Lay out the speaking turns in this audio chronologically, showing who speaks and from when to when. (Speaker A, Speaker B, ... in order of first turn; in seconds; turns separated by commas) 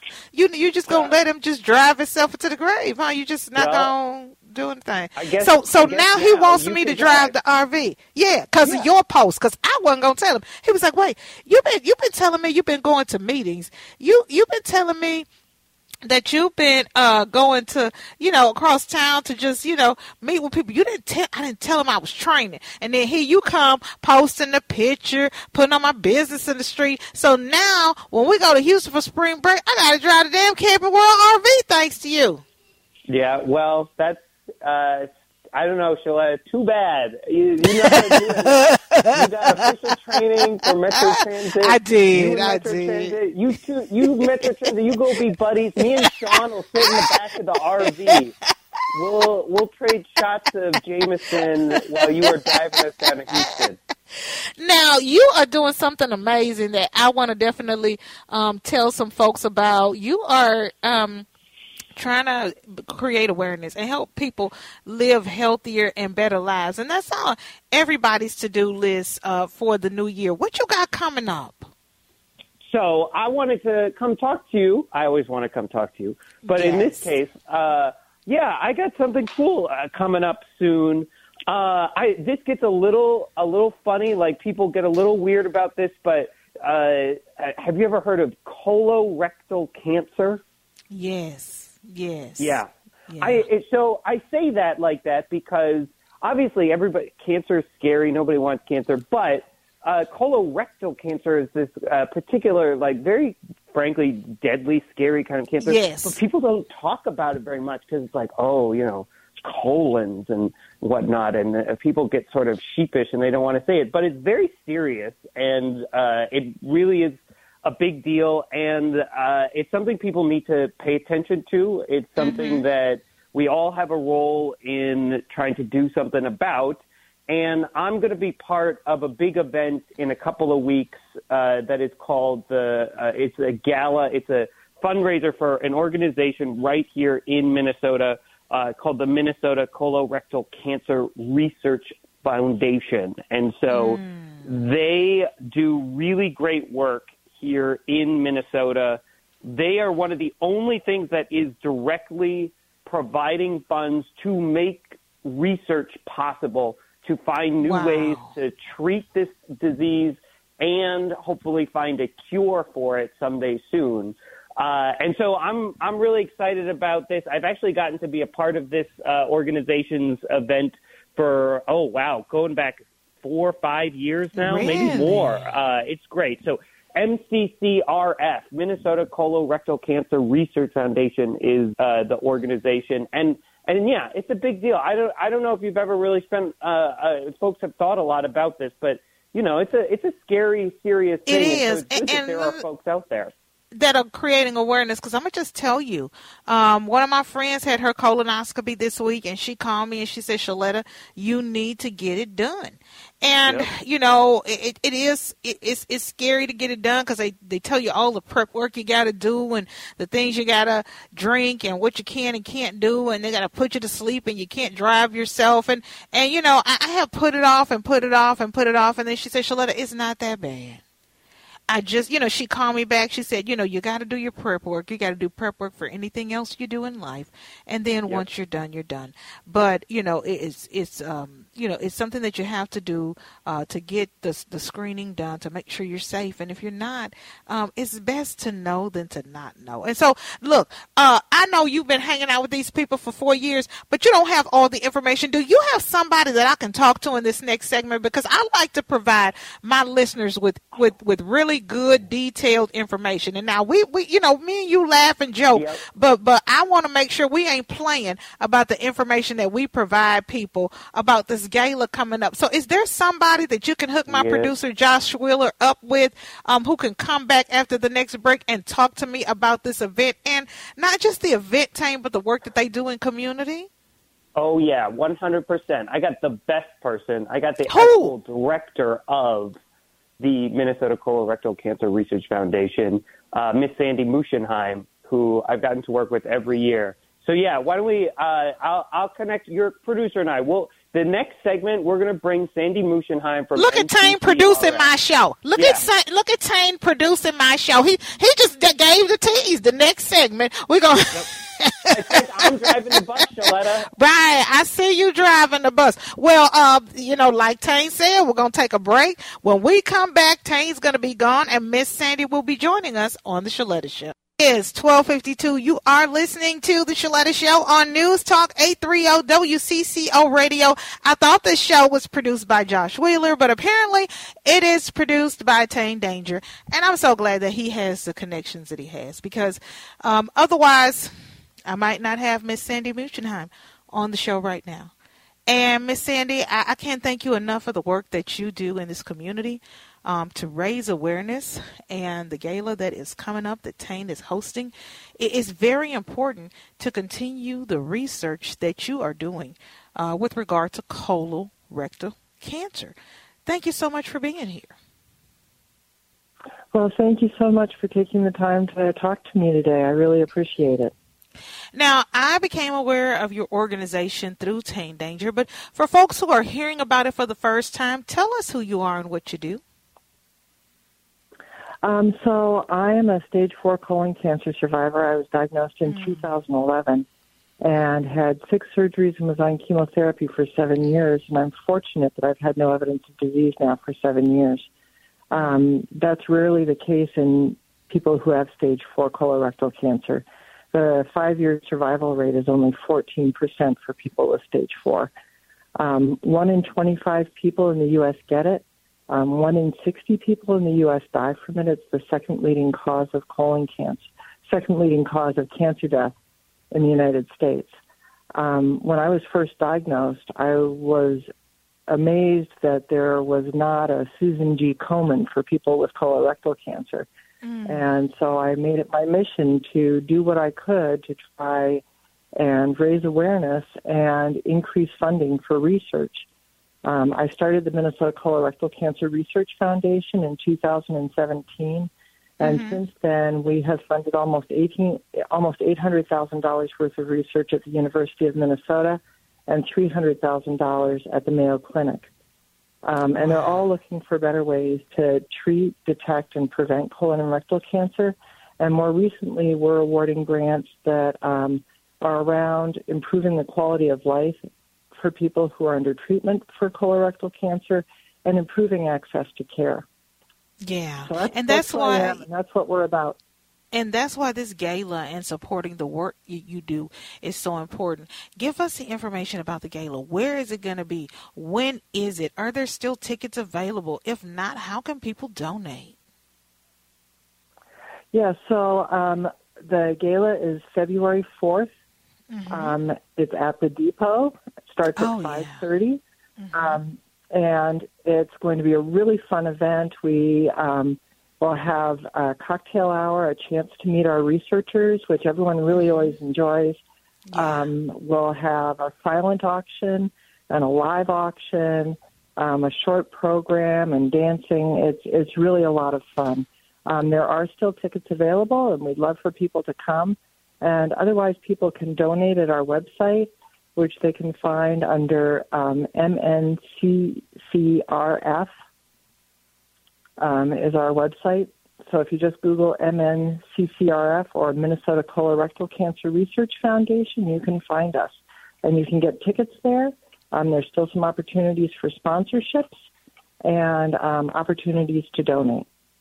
Speaker A: 0.3-15.3, Speaker B: 0.9-1.2, Speaker B: 3.5-3.9, Speaker B: 5.2-7.3, Speaker B: 8.6-8.9, Speaker A: 16.0-32.4, Speaker B: 33.1-38.6, Speaker A: 37.7-39.2, Speaker B: 39.1-48.3, Speaker A: 41.0-43.1, Speaker A: 47.9-48.1, Speaker B: 48.9-53.8, Speaker A: 52.0-52.5, Speaker A: 54.6-61.3, Speaker A: 62.0-71.7, Speaker B: 72.7-90.4, Speaker A: 76.5-77.2, Speaker A: 90.9-93.5, Speaker B: 92.4-193.3, Speaker A: 105.6-106.2, Speaker A: 122.2-122.7, Speaker A: 143.7-144.5, Speaker A: 157.6-158.3, Speaker A: 174.4-175.5, Speaker A: 191.3-192.6, Speaker A: 193.8-220.8, Speaker A: 221.7-273.7, Speaker B: 255.5-255.8, Speaker B: 264.1-264.5, Speaker B: 274.4-279.6, Speaker A: 277.7-278.1, Speaker B: 280.2-294.9, Speaker A: 293.6-302.5, Speaker B: 295.6-295.8, Speaker B: 301.9-303.9, Speaker A: 303.9-331.1, Speaker A: 331.7-334.9, Speaker A: 335.5-352.9, Speaker A: 353.5-354.7, Speaker C: 356.7-360.9, Speaker A: 361.8-369.6, Speaker C: 371.8-377.1, Speaker A: 375.9-376.3, Speaker C: 377.6-384.7, Speaker C: 385.3-395.1, Speaker A: 385.4-385.7, Speaker C: 395.8-406.1, Speaker C: 406.7-407.8, Speaker C: 408.4-411.3, Speaker C: 411.9-417.1, Speaker A: 417.4-417.9, Speaker C: 417.7-421.8, Speaker C: 422.4-426.2, Speaker C: 426.9-442.1, Speaker A: 432.4-432.8, Speaker C: 442.9-454.4, Speaker A: 443.2-443.6, Speaker C: 454.9-459.9, Speaker A: 460.6-462.2, Speaker C: 461.1-463.2, Speaker A: 463.7-475.9, Speaker C: 478.1-481.7, Speaker A: 482.3-482.8, Speaker C: 482.5-486.0, Speaker A: 485.0-485.7, Speaker A: 486.4-486.8, Speaker C: 486.5-496.8, Speaker A: 495.8-496.1, Speaker A: 497.3-497.7, Speaker C: 497.4-518.5, Speaker C: 520.2-532.7, Speaker C: 533.5-535.7